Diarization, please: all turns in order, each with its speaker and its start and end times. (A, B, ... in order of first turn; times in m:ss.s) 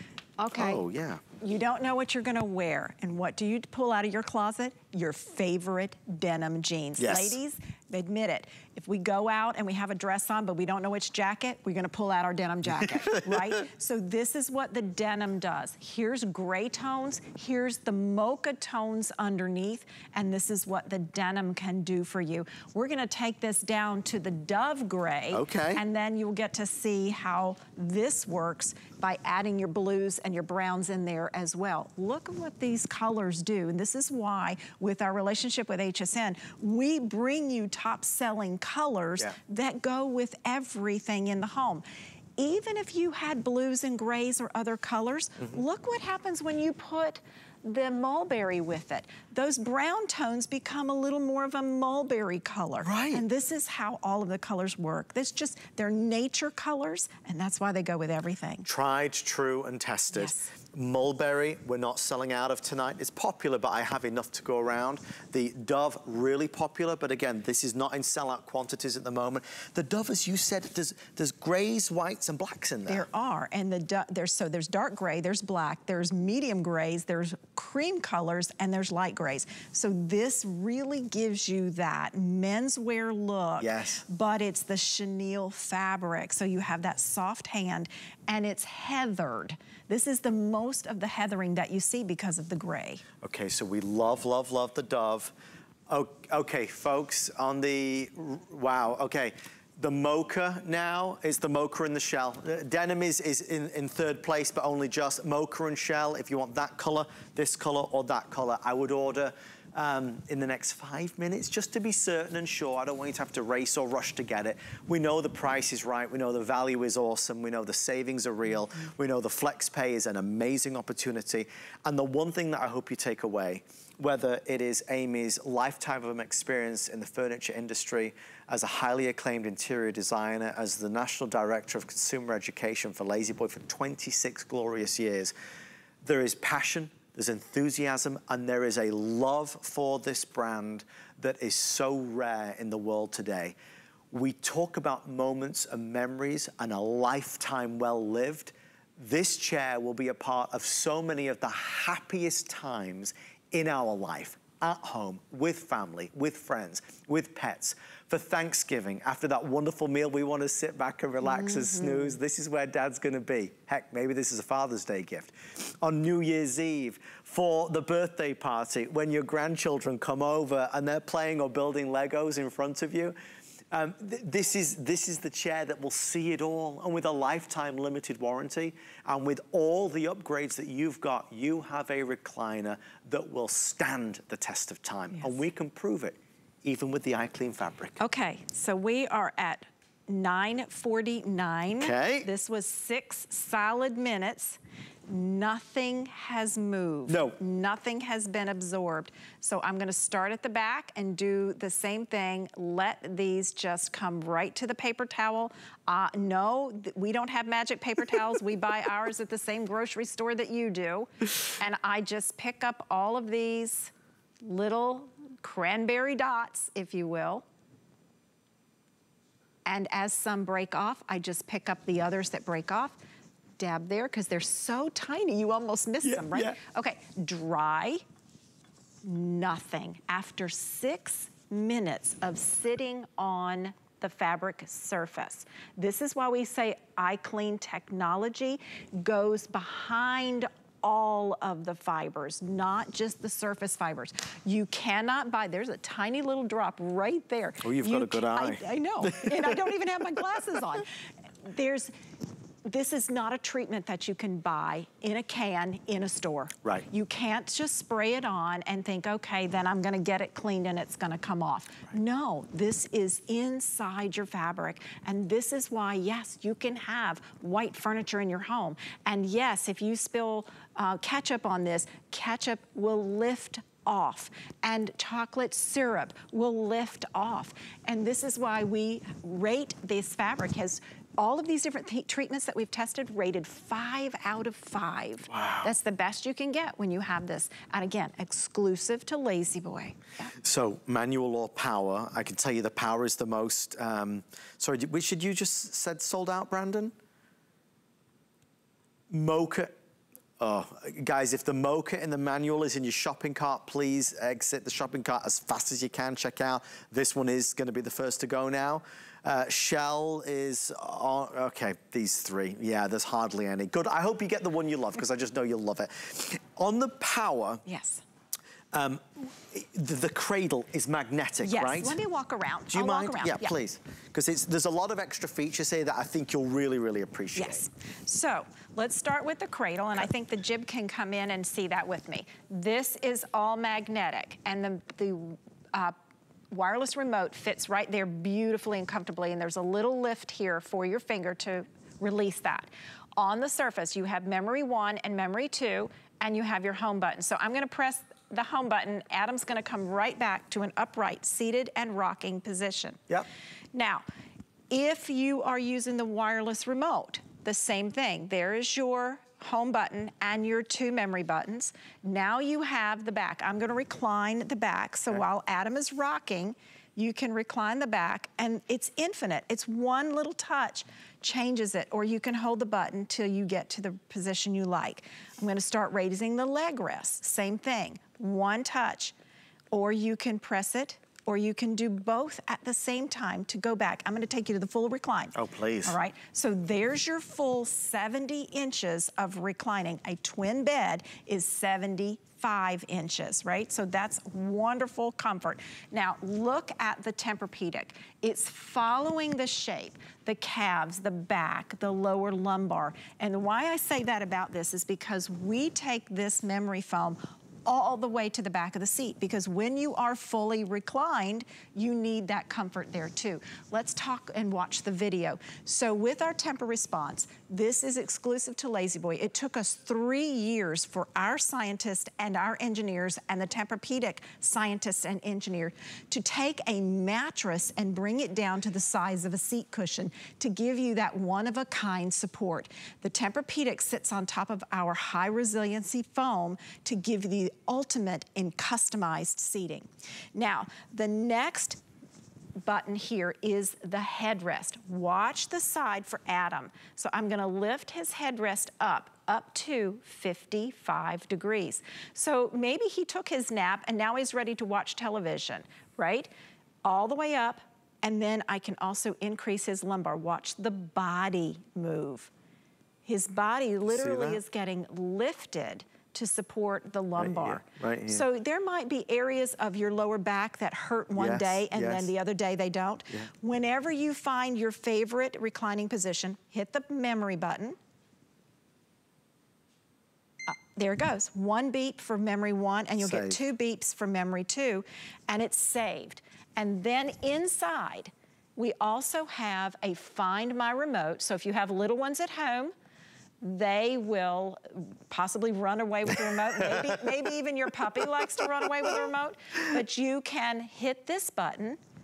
0:00.4-0:00.8 A
0:00.5-0:01.2 B
0:01.4-0:41.8 A
0:07.0-0:07.4 B
0:13.0-0:13.5 B
0:25.3-0:25.8 B
0:42.4-0:58.7 A
0:52.8-0:53.2 B
0:58.6-1:13.0 B
1:00.1-1:00.5 A
1:12.9-1:33.0 A
1:23.6-1:24.0 B
1:33.2-1:35.3 B
1:35.9-2:15.3 B
2:16.0-2:23.6 B
2:24.1-2:53.2 B
2:41.2-2:42.2 A
2:53.7-3:08.0 B
3:08.0-3:37.4 A
3:11.8-3:12.3 B
3:17.1-3:17.4 B
3:39.6-3:43.0 A
3:43.6-3:48.0 A
3:46.0-3:46.6 B
3:49.0-4:11.9 A
4:07.6-4:09.5 B
4:12.6-4:50.3 A
4:45.3-4:45.7 B
4:50.4-4:56.9 B
4:59.1-4:59.7 B
5:00.4-5:17.6 B
5:17.6-5:18.0 A
5:18.7-5:22.0 B
5:21.4-5:23.5 A
5:22.7-5:27.6 B
5:27.4-5:36.0 A
5:36.5-5:53.0 A
5:53.7-5:54.0 A
5:54.7-6:19.1 A
6:19.7-7:21.8 A
6:25.3-6:26.0 B
7:22.6-7:36.3 A
7:36.8-7:42.3 A
7:43.0-7:57.8 A
7:43.9-7:44.4 B
7:47.2-7:48.2 B
7:51.1-7:52.1 B
8:00.5-8:12.7 A
8:03.0-8:03.4 B
8:13.4-8:21.8 A